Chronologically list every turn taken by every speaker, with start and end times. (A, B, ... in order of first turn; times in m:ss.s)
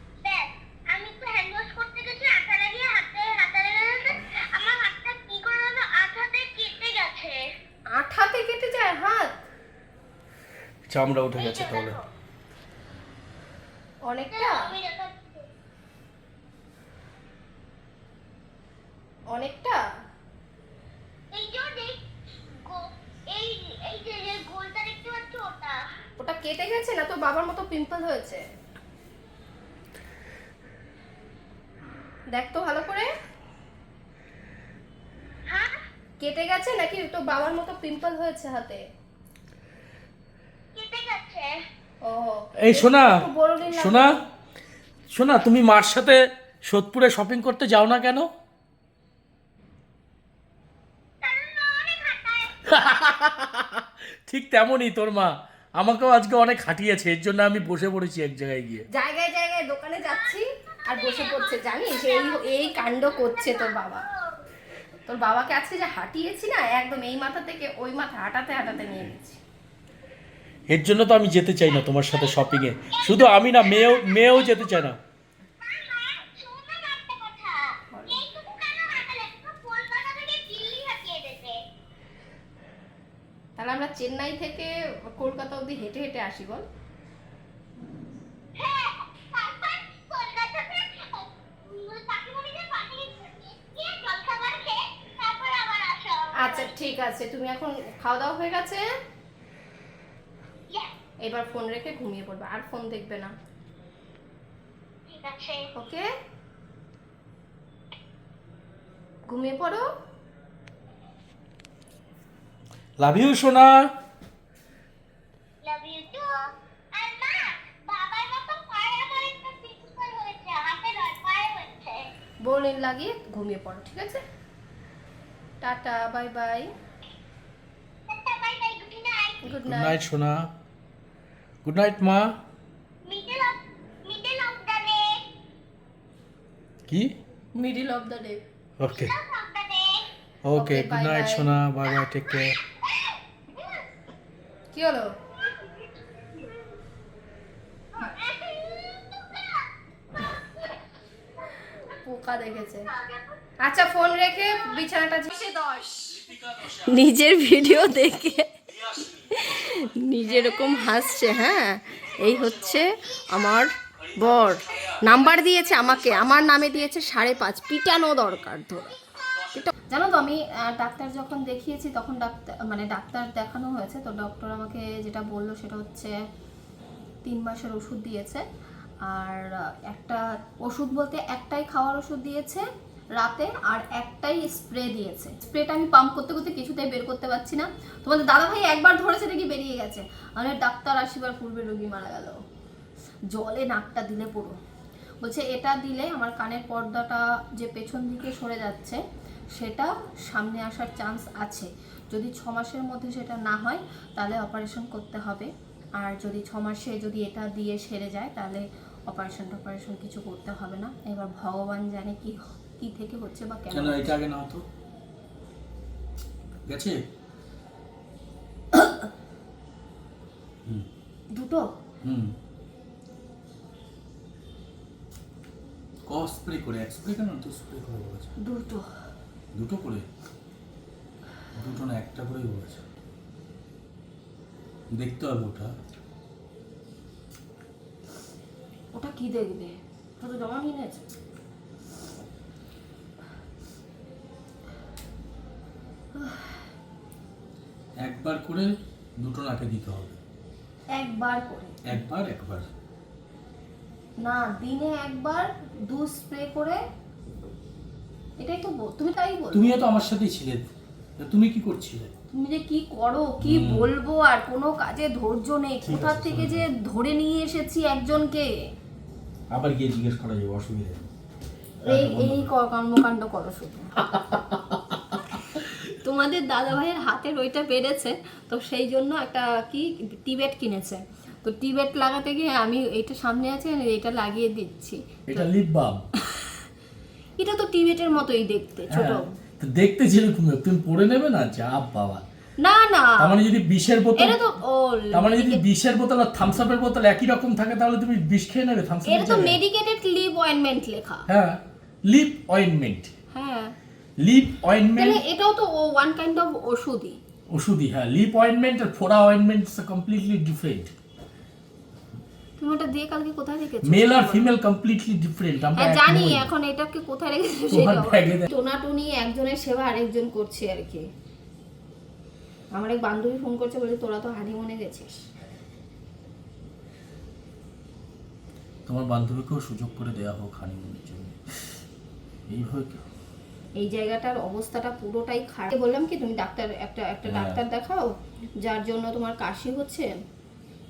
0:00.2-0:07.4 A
0:07.9-0:09.3 B
0:10.9-0:12.0 C
0:11.4-0:12.0 A
0:14.1-0:14.7 B
0:14.3-0:15.4 A
0:19.3-0:19.8 B
0:21.3-0:22.0 A
0:22.6-0:25.8 A
0:26.2-0:28.4 B
0:32.3-0:33.1 B
0:36.2-0:38.8 B
0:40.8-0:41.5 A
0:42.0-0:44.1 B
0:42.6-0:43.1 C
0:43.7-0:44.1 C
0:45.1-0:48.3 C
0:51.2-0:52.5 A
0:52.7-0:58.8 C
0:58.9-1:04.0 B
1:00.0-1:00.4 A
1:00.9-1:04.4 A
1:05.1-1:09.4 B
1:10.7-1:15.0 C
1:12.1-1:14.8 A
1:15.6-1:21.6 A
1:17.9-1:18.2 B
1:23.6-1:26.6 B
1:28.6-1:36.7 A
1:36.4-1:38.8 B
1:41.2-1:43.3 B
1:45.1-1:45.6 A
1:45.8-1:46.0 B
1:49.3-1:49.8 B
1:53.0-1:53.8 C
1:55.6-1:56.4 A
1:57.0-2:02.1 A
2:02.4-2:04.2 B
2:05.6-2:06.7 B
2:08.1-2:09.6 A
2:09.4-2:10.0 B
2:09.6-2:10.5 C
2:11.6-2:12.3 C
2:13.1-2:15.2 A
2:16.9-2:17.2 C
2:17.6-2:18.4 B
2:18.8-2:19.2 C
2:18.9-2:20.1 A
2:20.4-2:22.6 C
2:20.5-2:21.5 B
2:24.7-2:25.1 B
2:28.0-2:29.7 A
2:32.0-2:32.9 B
2:33.6-2:36.0 B
2:36.7-2:48.9 B
2:48.9-2:49.3 A
2:49.5-2:56.1 B
2:57.2-2:58.4 B
2:59.1-3:02.7 B
3:03.2-3:12.4 B
3:13.3-3:14.6 B
3:15.2-3:19.0 B
3:19.6-3:34.1 B
3:33.7-3:34.6 C
3:36.7-3:37.0 C
3:38.8-3:39.1 B
3:41.3-3:41.6 B
3:42.0-3:42.3 C
3:46.1-3:48.3 C
3:48.4-3:48.8 B
3:49.5-3:50.0 C
3:51.6-3:52.8 C
3:54.9-3:55.7 C
3:58.9-4:01.0 B
4:06.2-4:06.6 B
4:08.0-4:10.2 C
4:11.0-4:11.8 B
4:11.8-4:12.7 C
4:14.2-4:16.8 B
4:18.4-4:19.7 B
4:19.5-4:20.7 C
4:21.2-4:22.1 C
4:22.3-4:28.5 B
4:23.4-4:23.9 C
4:25.8-4:26.7 C
4:29.5-4:31.1 C
4:31.8-4:32.5 C
4:31.9-4:33.9 B
4:34.0-4:35.4 C
4:36.0-4:45.5 B
4:45.3-4:46.0 C
4:47.4-4:49.2 B
4:48.9-4:52.2 C
4:52.6-4:53.3 B
4:53.2-4:54.4 C
4:54.2-4:55.6 B
4:55.1-4:59.6 C
4:59.1-5:01.3 B
5:01.3-5:03.1 C
5:03.3-5:03.7 B
5:04.2-5:05.2 C
5:05.0-5:07.2 B
5:07.5-5:10.9 C
5:12.6-5:14.5 B
5:13.8-5:16.5 C
5:15.8-5:21.0 B
5:17.7-5:18.5 C
5:22.8-5:25.1 B
5:28.9-5:31.8 C
5:32.5-5:33.0 C
5:33.8-5:40.1 B
5:37.2-5:37.6 C